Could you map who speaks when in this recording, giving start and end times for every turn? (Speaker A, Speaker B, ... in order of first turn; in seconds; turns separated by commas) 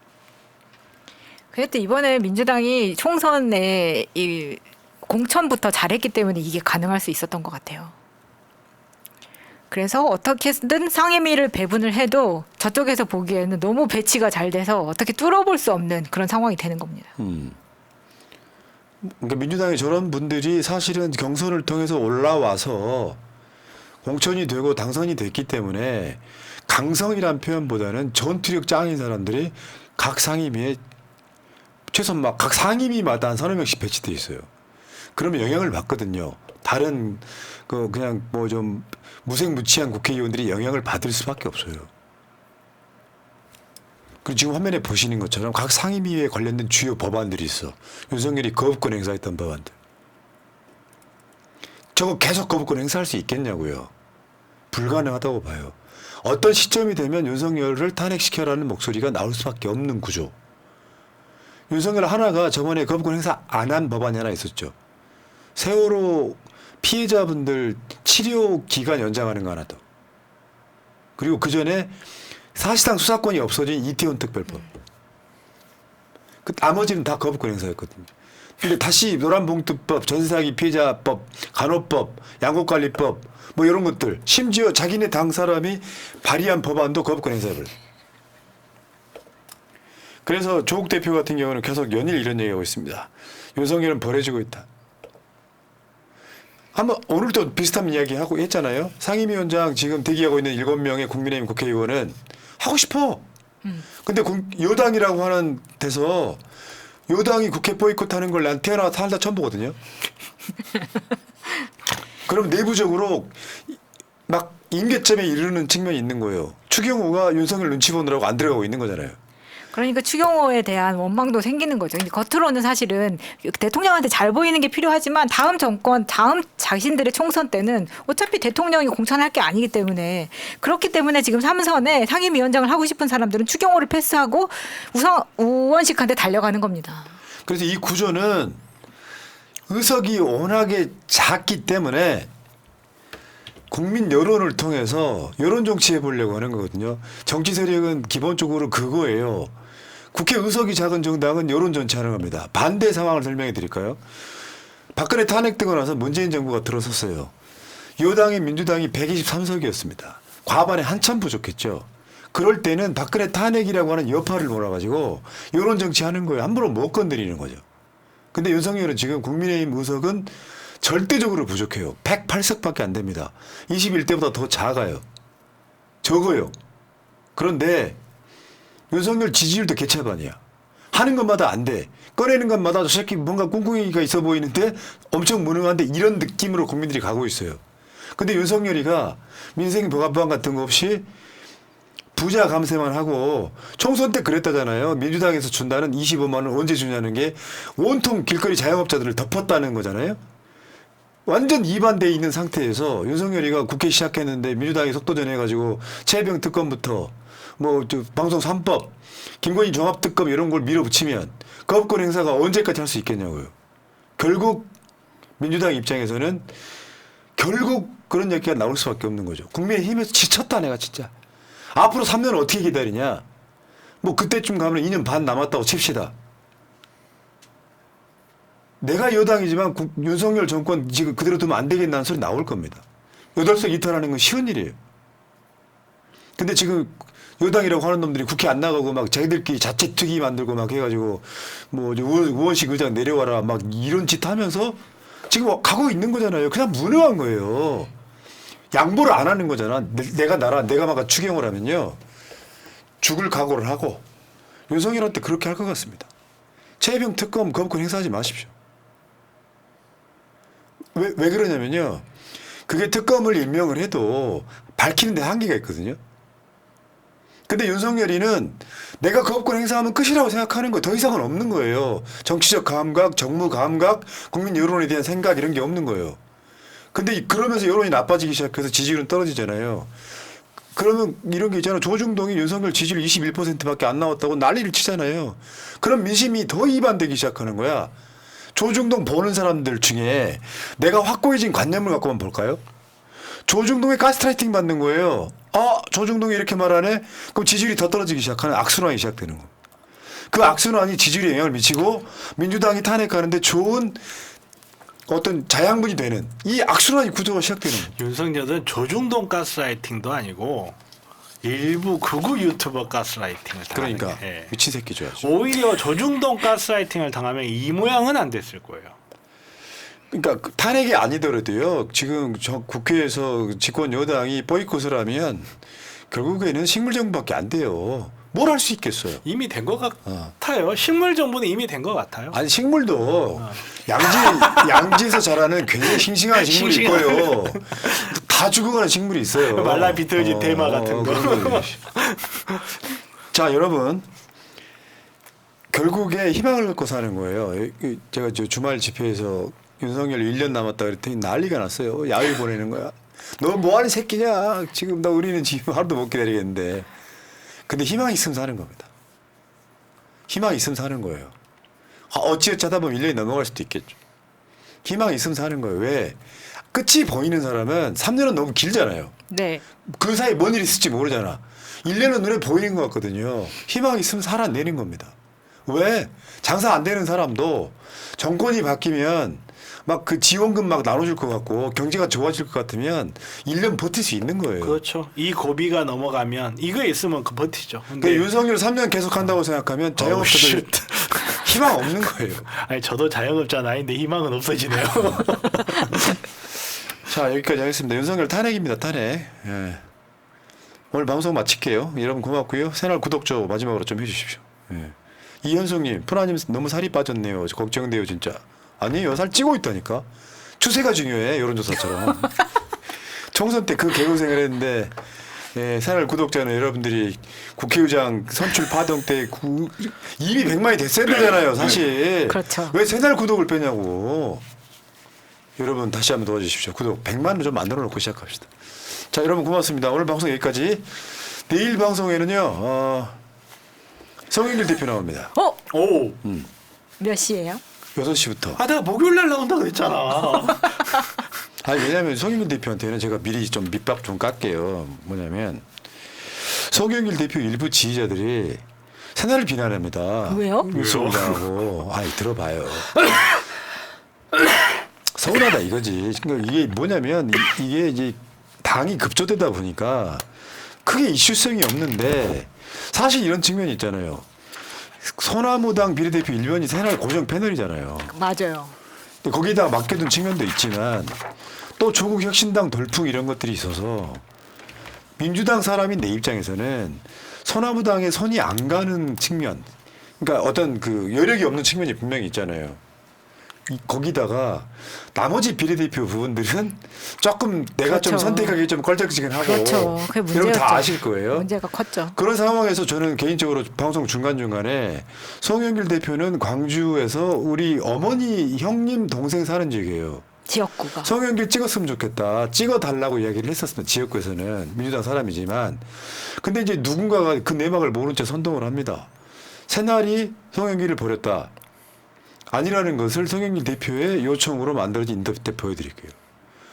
Speaker A: 1.5-7.9, Speaker A: 9.7-17.1, Speaker B: 17.2-17.6, Speaker B: 19.0-23.2, Speaker B: 24.0-30.8, Speaker B: 31.9-34.5, Speaker B: 35.2-41.9, Speaker B: 44.2-49.7, Speaker B: 52.0-53.9, Speaker B: 54.7-60.3, Speaker B: 61.7-64.7, Speaker B: 65.6-69.8, Speaker B: 71.2-71.9, Speaker B: 72.5-74.7, Speaker B: 76.5-78.1, Speaker B: 78.6-87.7, Speaker B: 90.2-94.7, Speaker B: 96.7-103.2, Speaker B: 104.0-106.4, Speaker B: 107.1-109.8, Speaker B: 112.3-113.8, Speaker B: 114.3-119.2, Speaker A: 119.7-137.1, Speaker B: 137.5-138.6, Speaker B: 139.7-142.3, Speaker B: 143.7-149.5, Speaker B: 150.1-154.0, Speaker B: 154.9-157.3, Speaker B: 158.0-167.6, Speaker B: 168.3-175.0, Speaker B: 176.0-176.5, Speaker B: 177.4-178.0, Speaker B: 178.9-180.4, Speaker B: 180.9-187.6, Speaker B: 188.2-191.1, Speaker B: 192.2-200.2, Speaker B: 201.3-213.5, Speaker B: 214.2-214.7, Speaker B: 215.4-216.5, Speaker B: 217.4-221.1, Speaker B: 221.7-223.2, Speaker B: 224.0-226.1, Speaker B: 228.8-234.8, Speaker B: 236.4-247.9, Speaker B: 248.7-252.0, Speaker B: 253.0-254.0, Speaker B: 254.7-256.1, Speaker B: 256.8-258.5, Speaker B: 260.9-262.1, Speaker B: 262.7-266.0, Speaker B: 267.5-276.2, Speaker B: 276.9-279.9, Speaker B: 280.8-287.9, Speaker B: 288.6-292.6, Speaker B: 293.5-299.5, Speaker B: 300.3-304.0, Speaker B: 305.1-307.9, Speaker C: 307.9-310.8, Speaker C: 311.4-314.6, Speaker B: 313.7-315.3, Speaker C: 315.2-319.0, Speaker B: 320.1-325.5, Speaker B: 326.1-329.2, Speaker C: 329.2-332.4, Speaker B: 330.1-330.3, Speaker B: 332.3-341.7, Speaker C: 333.4-335.0, Speaker C: 335.9-338.1, Speaker C: 339.4-342.7, Speaker B: 343.3-344.1, Speaker B: 345.7-356.9, Speaker B: 357.7-358.9, Speaker B: 360.3-361.3, Speaker B: 362.1-364.0, Speaker B: 364.8-366.2, Speaker B: 366.7-369.1, Speaker A: 369.3-369.6, Speaker B: 369.9-375.1, Speaker B: 375.7-384.8, Speaker C: 384.6-388.3, Speaker B: 388.0-392.5, Speaker C: 390.0-391.9, Speaker C: 392.5-396.2, Speaker B: 397.1-399.8, Speaker B: 400.9-410.1, Speaker B: 410.6-412.3, Speaker B: 413.3-414.9, Speaker B: 415.5-424.4, Speaker A: 422.3-422.8, Speaker B: 425.6-428.5, Speaker B: 429.1-433.2, Speaker B: 434.3-435.4, Speaker A: 435.4-435.6, Speaker C: 435.7-436.2, Speaker A: 437.0-437.6, Speaker B: 437.9-438.6, Speaker C: 438.6-441.1, Speaker B: 441.6-445.6, Speaker B: 446.3-448.6, Speaker B: 449.1-452.9, Speaker A: 450.3-450.7, Speaker C: 450.7-451.4, Speaker B: 455.1-460.2, Speaker B: 460.9-464.3, Speaker B: 465.0-468.1, Speaker A: 468.1-468.8, Speaker B: 469.2-471.2, Speaker B: 471.8-474.2, Speaker B: 475.2-479.7, Speaker B: 480.2-482.8, Speaker B: 483.7-491.5, Speaker A: 487.9-488.6, Speaker A: 489.4-492.2, Speaker B: 492.1-500.3, Speaker A: 500.5-501.1, Speaker B: 501.0-509.1, Speaker B: 509.7-511.5, Speaker B: 512.5-516.1